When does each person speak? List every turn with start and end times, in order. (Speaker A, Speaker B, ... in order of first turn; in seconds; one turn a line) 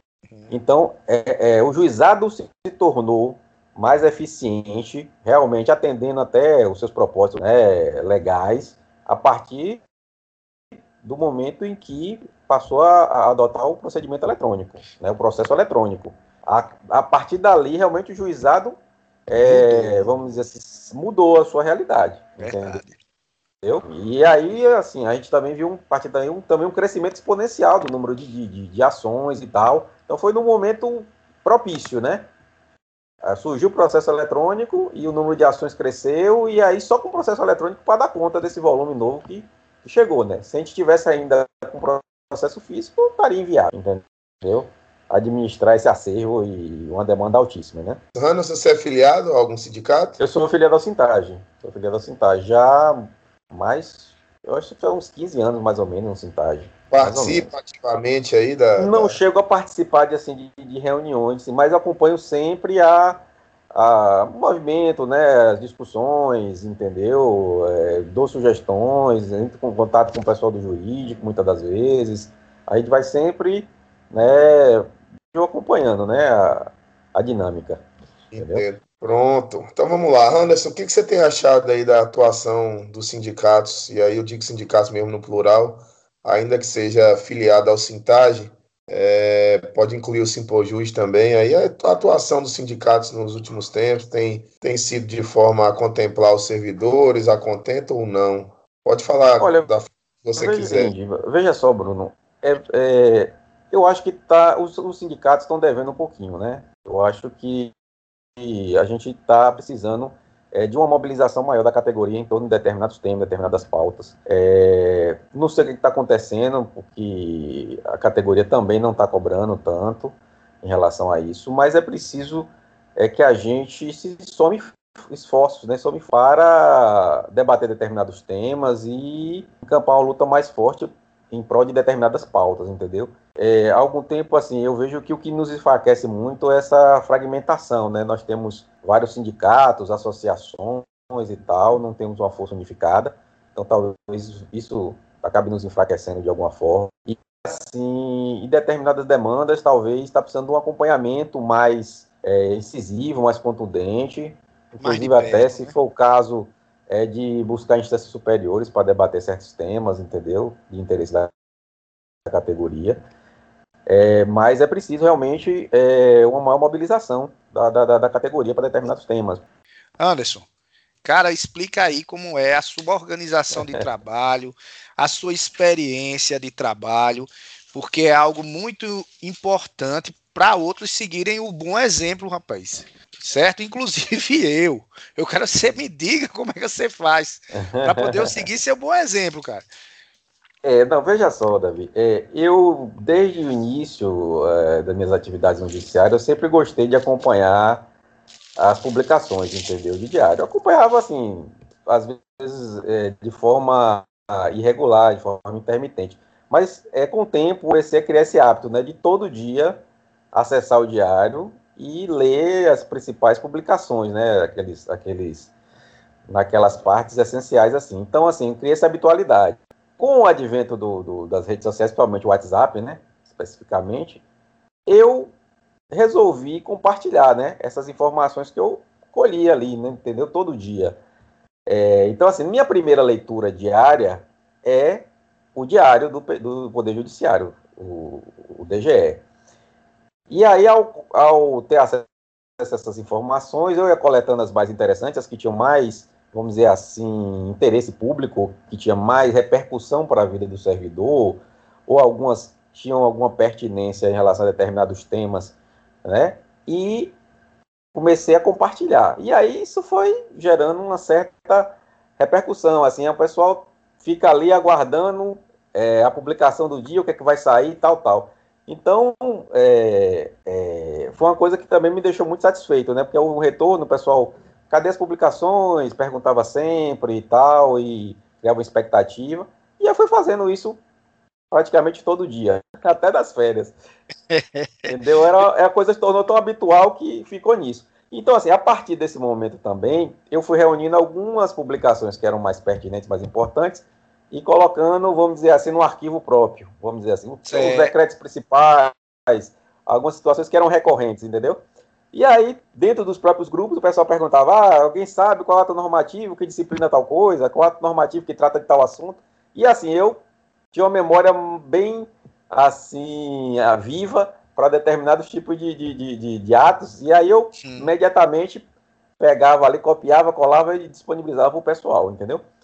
Speaker A: 0.3-0.6
Speaker B: 0.5-9.8
Speaker B: 11.0-22.8
Speaker A: 19.4-20.1
Speaker A: 22.4-23.0
Speaker B: 23.6-32.3
Speaker B: 33.2-48.0
Speaker C: 48.1-50.2
Speaker B: 50.2-57.5
Speaker C: 56.9-59.2
Speaker B: 58.8-77.8
Speaker C: 78.3-100.9
Speaker B: 78.4-78.7
Speaker B: 99.4-99.7
Speaker B: 100.4-107.7
Speaker B: 108.4-161.3
Speaker A: 154.8-155.7
Speaker B: 162.3-163.0
Speaker B: 163.9-169.4
Speaker A: 170.0-170.4
Speaker A: 171.0-189.7
Speaker B: 187.6-188.4
Speaker B: 190.6-197.9
Speaker B: 198.6-209.8
Speaker B: 210.3-215.5
Speaker B: 216.3-224.2
Speaker B: 224.9-225.3
Speaker B: 225.9-231.0
Speaker B: 231.7-239.2
Speaker B: 240.3-242.1
Speaker B: 242.6-257.1
Speaker B: 257.9-280.8
Speaker B: 281.5-283.8
Speaker A: 284.3-284.9
Speaker B: 284.9-301.6
Speaker A: 297.5-297.9
Speaker B: 302.1-310.2
Speaker B: 310.7-318.6
Speaker A: 317.6-317.9
Speaker B: 319.2-322.4